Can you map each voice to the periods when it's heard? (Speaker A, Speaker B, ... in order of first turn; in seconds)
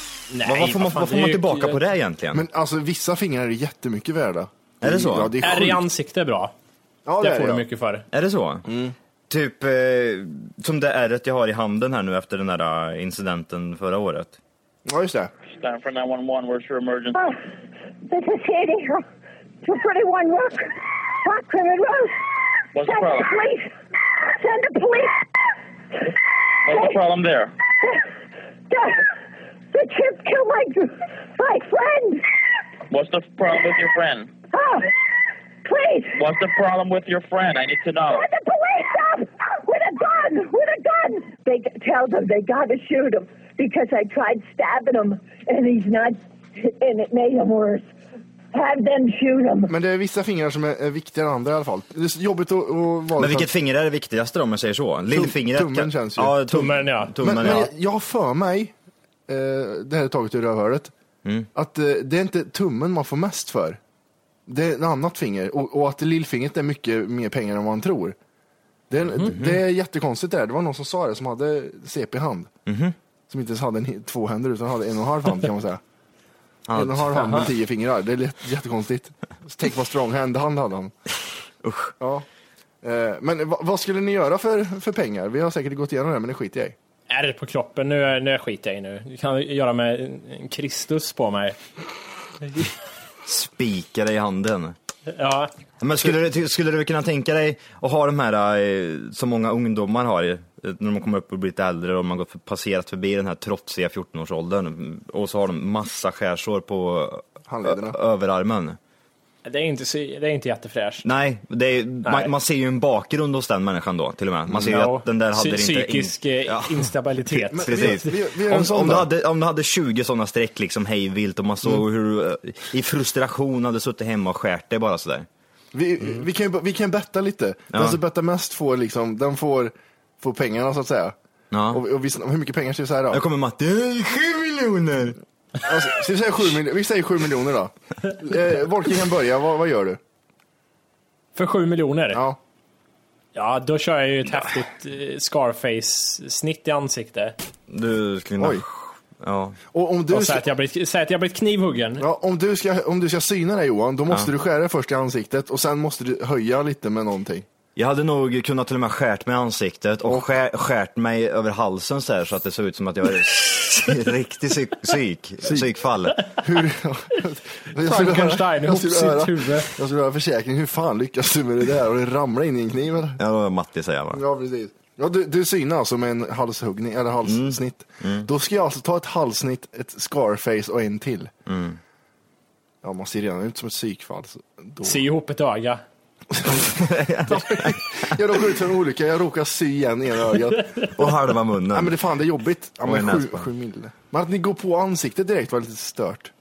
Speaker A: 0.3-1.8, 5.4-6.5, 7.2-8.1, 56.5-57.6, 87.1-91.6, 95.1-95.5, 109.4-111.0, 112.0-112.3, 114.6-118.1, 141.3-142.2, 143.3-147.3, 150.1-152.0, 167.8-169.7, 184.8-185.8
Speaker B: 0.5-2.4, 4.8-5.3, 8.1-8.7, 9.3-14.4, 53.1-57.7, 69.2-69.6, 72.7-73.0, 76.7-77.4, 81.6-81.9, 93.2-94.8, 95.8-108.8, 111.0-116.9, 117.5-125.3, 127.7-128.0, 131.5-131.8, 133.1-135.2, 147.7-149.6, 157.8-166.3, 173.2-174.2, 177.2-178.3, 181.5-181.8, 186.6-188.1, 190.9-191.9, 192.8-193.5
Speaker C: 2.3-5.8, 7.0-7.6, 8.7-8.9, 14.8-15.3, 49.7-53.5, 55.1-56.6, 57.2-58.7, 59.3-60.9, 61.5-63.8, 64.5-68.2, 68.9-72.5, 73.3-75.8, 76.7-80.9, 82.0-82.2, 82.8-86.8, 107.5-108.0, 114.5-114.8, 117.5-119.1, 125.7-131.1, 131.7-133.2, 135.6-140.0, 142.1-142.4, 148.4-148.6, 149.7-150.4, 152.0-157.4, 165.4-165.7, 166.3-173.2, 174.1-181.3, 182.8-185.0, 186.3-186.6, 187.3-190.9, 191.7-196.3
Speaker D: 15.5-17.2, 22.7-23.3, 26.6-27.5, 32.9-34.3, 36.2-38.2
Speaker E: 18.1-19.0, 19.6-25.2, 26.7-27.0, 28.7-29.1, 29.7-32.2, 34.5-34.9, 35.6-36.2, 38.0-47.9, 48.5-49.7